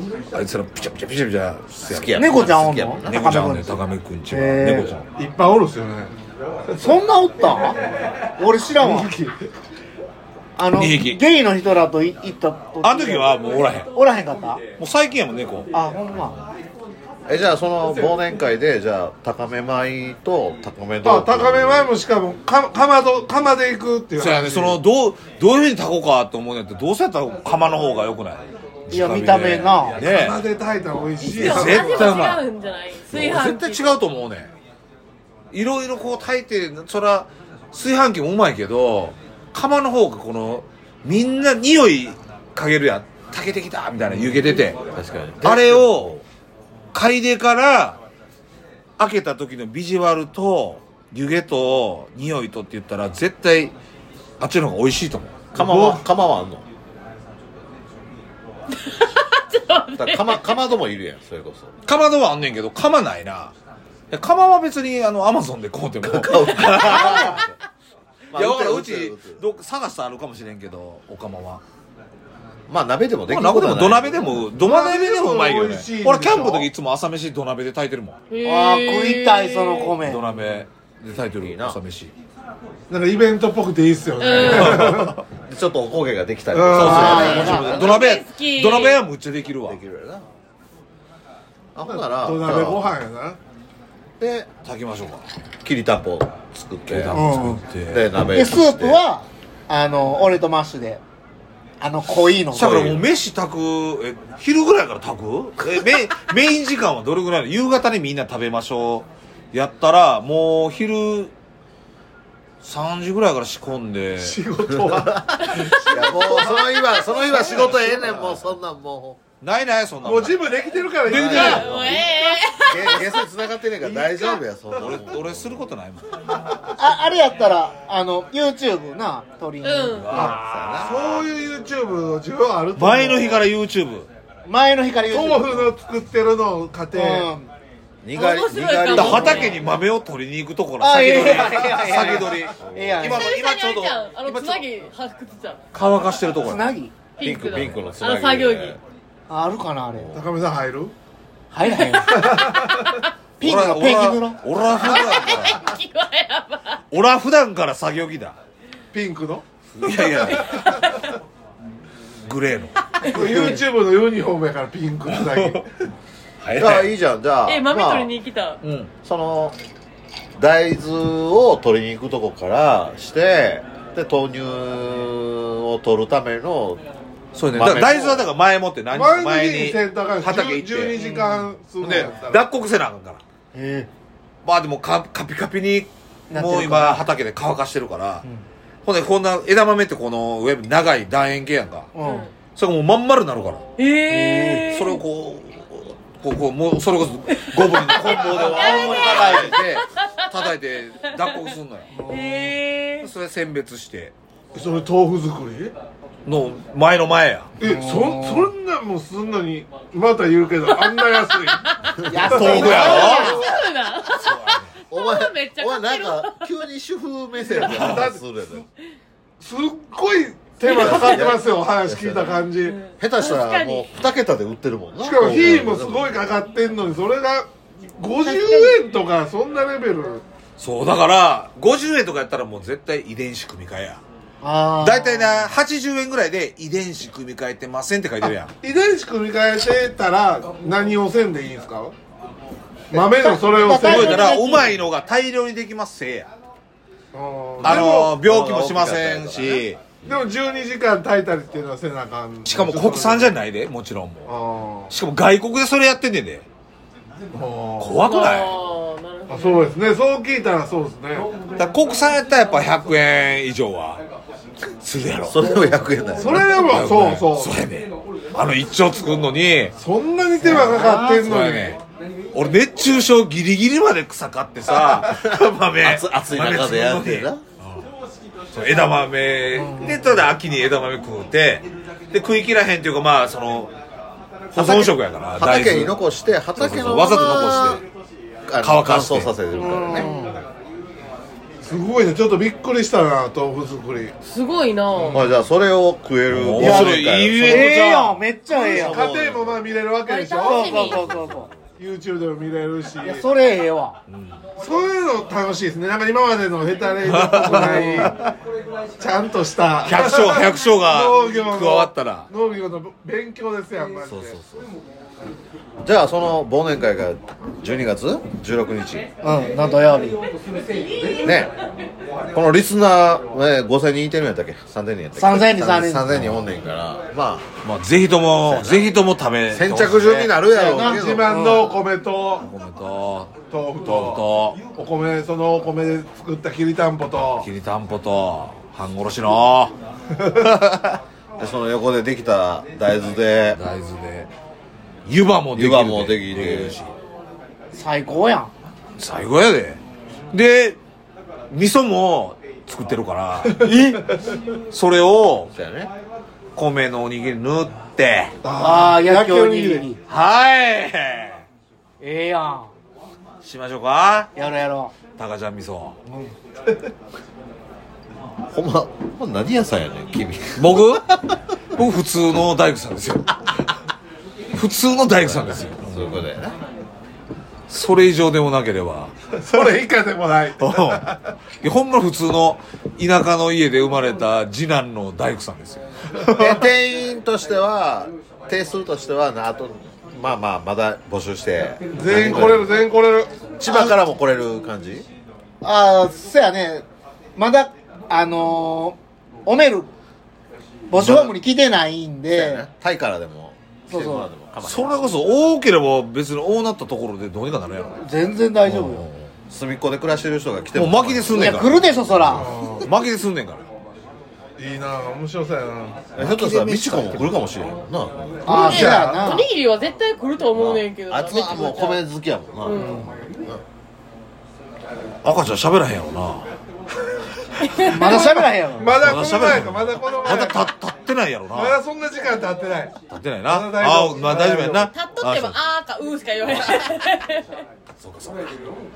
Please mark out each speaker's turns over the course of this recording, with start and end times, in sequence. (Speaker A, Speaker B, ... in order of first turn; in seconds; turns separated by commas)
Speaker A: 0.3-2.5, Speaker B: 1.8-3.2, Speaker C: 2.1-3.7, Speaker A: 3.0-5.1, Speaker C: 4.3-4.9, Speaker D: 5.2-6.1, Speaker C: 6.8-7.8, Speaker C: 8.4-9.1, Speaker D: 8.8-9.3, Speaker C: 10.6-14.6, Speaker A: 10.8-11.2, Speaker A: 12.8-13.9, Speaker A: 14.8-15.7, Speaker C: 15.7-16.4, Speaker B: 17.3-21.9, Speaker D: 21.0-24.8, Speaker A: 24.2-30.4, Speaker C: 28.9-29.9, Speaker D: 30.0-32.4, Speaker E: 31.2-33.9, Speaker A: 31.3-32.4, Speaker A: 33.1-34.5, Speaker A: 35.5-44.8, Speaker B: 44.0-46.2, Speaker A: 45.4-46.2, Speaker A: 46.9-48.0, Speaker A: 49.0-53.7, Speaker A: 54.4-55.4, Speaker B: 55.5-56.6, Speaker D: 55.5-56.0, Speaker E: 58.7-60.4, Speaker B: 60.0-61.7, Speaker A: 61.9-63.5, Speaker A: 64.1-67.4, Speaker B: 66.0-67.5, Speaker E: 66.8-67.4, Speaker B: 68.3-69.4, Speaker A: 68.3-71.6, Speaker B: 72.7-74.2, Speaker A: 73.3-78.2, Speaker D: 74.6-76.7, Speaker E: 78.3-80.0, Speaker C: 78.4-80.2, Speaker A: 80.0-82.1, Speaker B: 81.4-81.8, Speaker D: 82.9-85.1, Speaker E: 84.2-84.7, Speaker A: 84.5-85.1, Speaker B: 84.8-88.0, Speaker D: 86.5-87.5, Speaker A: 86.7-89.8, Speaker C: 86.8-87.7, Speaker E: 87.0-89.0, Speaker B: 89.7-90.2, Speaker B: 91.7-92.9, Speaker D: 91.9-93.4, Speaker B: 94.2-94.5, Speaker A: 94.6-95.2, Speaker B: 95.6-97.2, Speaker A: 96.9-98.0, Speaker C: 97.1-97.6, Speaker B: 97.9-99.0, Speaker C: 98.3-101.0, Speaker C: 101.8-102.8, Speaker B: 102.5-103.0, Speaker A: 102.5-111.3, Speaker A: 112.6-114.4, Speaker D: 114.2-116.6, Speaker B: 114.8-119.2, Speaker A: 117.5-118.5, Speaker A: 119.4-120.4, Speaker D: 120.0-121.9, Speaker A: 121.0-122.0, Speaker B: 121.1-122.0, Speaker E: 121.2-123.2, Speaker B: 122.7-125.6, Speaker A: 124.8-126.1, Speaker C: 126.8-130.4, Speaker E: 129.6-130.2, Speaker A: 129.9-131.2, Speaker B: 130.2-131.1, Speaker D: 130.8-133.4, Speaker A: 132.8-134.1, Speaker C: 134.4-135.7, Speaker D: 135.1-137.3, Speaker C: 136.9-137.5, Speaker B: 138.0-139.6, Speaker E: 138.1-139.6, Speaker A: 138.9-144.6, Speaker C: 140.8-143.3, Speaker B: 142.5-143.1, Speaker E: 143.1-145.6, Speaker A: 145.7-146.7, Speaker C: 146.4-146.9, Speaker E: 147.2-148.8, Speaker B: 147.2-148.8, Speaker A: 147.4-147.8, Speaker C: 149.3-150.1, Speaker B: 149.9-150.2, Speaker D: 150.1-150.9, Speaker C: 151.5-152.4, Speaker E: 151.6-152.3, Speaker D: 152.1-153.0, Speaker C: 153.4-154.4, Speaker A: 153.4-155.6, Speaker E: 154.7-156.8, Speaker A: 156.9-158.3, Speaker D: 158.9-159.4, Speaker A: 159.8-160.8, Speaker E: 159.9-160.8, Speaker A: 162.3-162.8, Speaker D: 163.0-165.6, Speaker C: 163.1-163.6, Speaker A: 165.1-165.6, Speaker A: 166.4-166.9, Speaker B: 166.5-168.1, Speaker E: 167.5-168.6, Speaker A: 168.6-168.9, Speaker B: 169.0-169.6, Speaker B: 170.4-176.8, Speaker A: 177.3-181.0, Speaker B: 177.5-178.2, Speaker D: 178.9-182.4, Speaker C: 180.9-181.5, Speaker A: 181.8-183.2, Speaker C: 183.5-183.9, Speaker A: 184.4-188.2, Speaker C: 186.3-187.0, Speaker A: 188.8-191.9, Speaker C: 191.9-192.2, Speaker E: 192.0-192.3, Speaker A: 192.5-193.6, Speaker E: 193.8-195.0, Speaker C: 194.1-194.7, Speaker A: 194.7-201.9, Speaker E: 197.5-200.3, Speaker C: 198.3-199.6, Speaker C: 201.9-202.5, Speaker E: 202.1-203.1, Speaker A: 203.0-204.1, Speaker D: 204.5-205.7, Speaker A: 206.2-207.5, Speaker D: 207.6-211.7, Speaker C: 207.6-208.5, Speaker E: 210.7-216.4, Speaker C: 212.1-213.4, Speaker D: 212.2-213.5, Speaker A: 212.3-213.5, Speaker A: 214.0-214.7, Speaker B: 214.9-218.6, Speaker D: 217.5-218.2, Speaker D: 219.4-222.8, Speaker E: 220.7-221.3, Speaker B: 220.8-222.4, Speaker E: 222.6-223.9, Speaker B: 223.0-226.3, Speaker D: 225.0-230.2, Speaker E: 228.2-228.8, Speaker A: 230.6-234.0, Speaker C: 234.4-235.5, Speaker A: 234.8-238.5, Speaker D: 238.6-241.9, Speaker D: 242.9-244.4, Speaker C: 242.9-244.7, Speaker A: 243.8-246.3, Speaker D: 247.1-248.2, Speaker B: 247.6-250.2, Speaker A: 247.6-249.8, Speaker D: 250.0-253.4, Speaker A: 252.4-254.3, Speaker D: 254.2-254.9, Speaker A: 254.9-256.4, Speaker D: 257.3-257.9, Speaker A: 257.8-258.6, Speaker E: 258.0-259.7, Speaker D: 259.3-261.3, Speaker A: 261.6-264.0, Speaker A: 264.8-265.5, Speaker B: 265.2-266.4, Speaker D: 266.2-267.6, Speaker A: 266.5-269.7, Speaker D: 269.8-271.8, Speaker C: 270.4-271.2, Speaker A: 271.2-271.8, Speaker A: 272.3-277.8, Speaker B: 275.3-277.4, Speaker A: 278.5-283.7, Speaker C: 279.5-280.0, Speaker A: 284.5-286.0, Speaker B: 284.5-287.8, Speaker A: 286.6-287.8, Speaker B: 288.5-290.1, Speaker A: 288.6-289.3, Speaker C: 289.5-290.4, Speaker D: 291.6-294.1, Speaker E: 294.2-295.2, Speaker C: 295.0-295.2, Speaker B: 295.1-297.9, Speaker A: 296.3-298.2, Speaker C: 296.6-299.0, Speaker D: 298.5-300.9, Speaker B: 298.5-299.7, Speaker E: 300.0-301.1, Speaker C: 300.4-301.5, Speaker A: 301.0-301.5, Speaker D: 301.8-303.2, Speaker C: 303.0-304.0, Speaker A: 304.1-304.4, Speaker D: 304.6-308.2, Speaker A: 307.0-308.2, Speaker C: 307.6-308.1, Speaker D: 309.0-314.4, Speaker A: 309.8-312.3, Speaker B: 314.0-314.6, Speaker B: 315.8-319.1, Speaker C: 319.2-320.2, Speaker E: 320.8-321.3, Speaker B: 321.2-321.5, Speaker B: 322.3-327.5, Speaker C: 325.2-326.1, Speaker A: 326.1-326.5, Speaker A: 327.6-330.3, Speaker B: 328.4-328.9, Speaker B: 329.5-331.6, Speaker C: 330.5-331.7, Speaker D: 330.6-332.4, Speaker A: 332.4-334.6, Speaker D: 333.5-334.2, Speaker D: 334.7-337.5, Speaker A: 337.4-339.7, Speaker B: 341.4-343.6, Speaker A: 343.5-344.3, Speaker A: 345.1-346.9, Speaker B: 345.5-346.8, Speaker C: 347.7-348.5, Speaker A: 349.0-350.8, Speaker A: 351.5-353.6, Speaker C: 353.6-354.0, Speaker A: 354.7-355.5, Speaker B: 355.5-355.9, Speaker A: 356.5-358.3, Speaker D: 358.4-359.9, Speaker C: 358.6-360.0, Speaker A: 360.1-361.4, Speaker C: 362.0-362.7, Speaker A: 363.4-364.3, Speaker C: 364.4-364.9, Speaker A: 365.2-365.9, Speaker C: 366.1-366.3, Speaker B: 368.5-371.4, Speaker A: 370.6-371.1, Speaker A: 371.8-373.4, Speaker A: 374.5-376.1, Speaker B: 375.2-376.6, Speaker A: 377.7-379.1, Speaker D: 379.4-381.2, Speaker A: 380.6-381.0, Speaker A: 381.6-386.4, Speaker B: 386.4-392.9, Speaker D: 391.9-393.4, Speaker B: 393.6-395.1, Speaker C: 393.7-394.0, Speaker C: 395.6-396.8, Speaker C: 397.4-399.9, Speaker C: 400.9-402.6, Speaker B: 400.9-401.3, Speaker B: 402.3-405.1, Speaker C: 403.9-404.3, Speaker A: 404.6-408.0, Speaker C: 408.0-409.0, Speaker A: 408.6-409.2, Speaker B: 409.5-412.6, Speaker A: 410.7-411.8, Speaker C: 411.3-412.5, Speaker D: 412.4-412.8, Speaker A: 412.8-413.6, Speaker D: 414.6-416.0, Speaker B: 416.1-418.8, Speaker A: 416.2-417.3, Speaker D: 418.4-419.2, Speaker C: 418.4-419.4, Speaker E: 418.7-422.0, Speaker B: 420.5-423.6, Speaker E: 422.6-423.1, Speaker C: 422.8-423.1, Speaker A: 425.2-426.5, Speaker D: 427.8-430.7, Speaker C: 427.8-429.0, Speaker A: 429.0-431.8, Speaker D: 431.5-434.9, Speaker A: 433.1-435.6, Speaker E: 434.9-437.5, Speaker A: 438.0-438.5